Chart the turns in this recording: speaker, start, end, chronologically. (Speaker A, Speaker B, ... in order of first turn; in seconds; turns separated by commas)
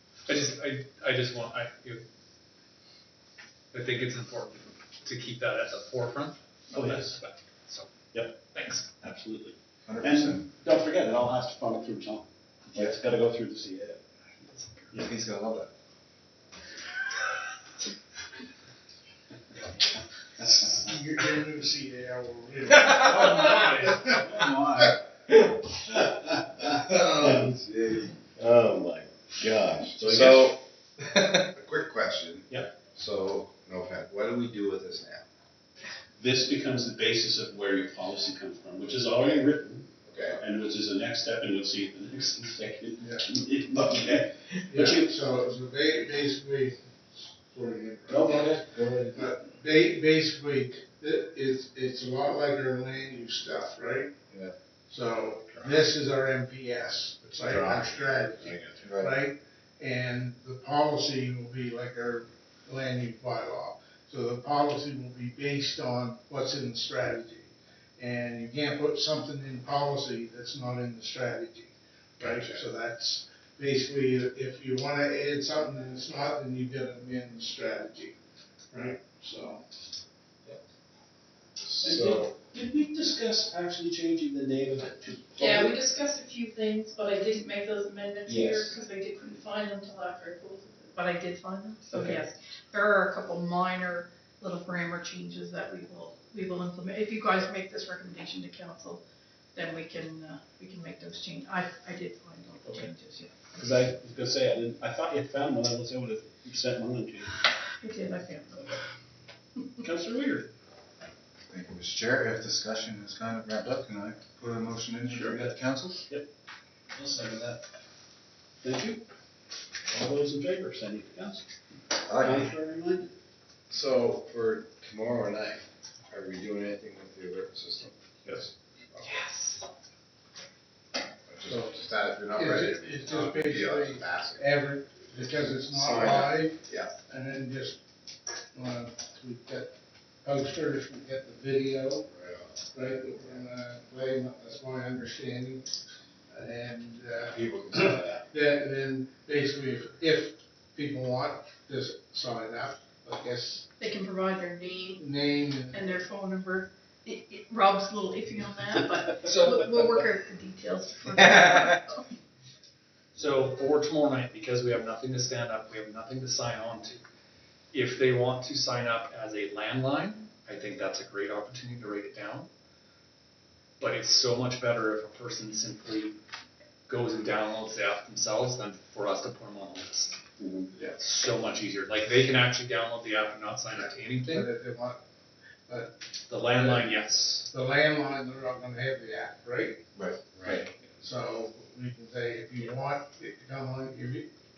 Speaker A: 0.3-2.0, Speaker A: 3.7-7.9, Speaker B: 6.7-7.2, Speaker B: 8.1-14.0, Speaker A: 8.4-8.9, Speaker C: 9.8-10.5, Speaker A: 14.5-14.9, Speaker C: 14.9-15.7, Speaker D: 20.7-24.2, Speaker C: 22.9-23.3, Speaker A: 23.1-24.0, Speaker B: 23.4-24.9, Speaker E: 26.8-35.2, Speaker B: 27.1-27.6, Speaker B: 30.0-30.5, Speaker B: 36.2-45.2, Speaker E: 40.0-40.4, Speaker D: 44.7-48.6, Speaker B: 48.1-49.3, Speaker D: 49.1-54.1, Speaker D: 54.9-78.2, Speaker E: 57.4-59.0, Speaker C: 58.8-59.2, Speaker E: 72.2-72.6, Speaker D: 78.7-79.6, Speaker E: 81.7-82.3, Speaker B: 81.8-85.8, Speaker F: 85.4-99.0, Speaker E: 88.3-88.7, Speaker B: 91.9-92.2, Speaker F: 99.5-103.5, Speaker B: 102.6-102.9, Speaker B: 103.5-107.4, Speaker F: 107.8-108.7, Speaker B: 109.8-110.5, Speaker C: 111.5-116.0, Speaker B: 115.0-115.5, Speaker B: 116.9-117.6, Speaker B: 118.6-119.0, Speaker B: 119.9-123.1, Speaker C: 122.1-122.5, Speaker E: 123.7-128.5, Speaker A: 129.0-129.6, Speaker E: 131.3-134.5, Speaker D: 131.4-131.8, Speaker D: 132.3-137.8, Speaker E: 135.7-136.9, Speaker D: 138.5-142.1, Speaker E: 142.1-142.5, Speaker D: 142.7-145.7, Speaker D: 146.3-153.7, Speaker E: 147.3-148.3, Speaker F: 153.8-155.1, Speaker D: 155.0-156.0, Speaker F: 155.7-162.1, Speaker A: 159.2-159.7, Speaker A: 163.1-167.0, Speaker A: 167.7-172.5, Speaker A: 173.8-176.2, Speaker A: 176.9-180.2, Speaker B: 180.4-180.7, Speaker A: 180.9-184.5, Speaker D: 184.2-185.0, Speaker D: 185.7-186.0, Speaker A: 186.3-187.5, Speaker D: 186.5-186.9, Speaker D: 187.5-189.8, Speaker C: 189.9-190.7, Speaker E: 190.3-190.6, Speaker D: 191.0-194.3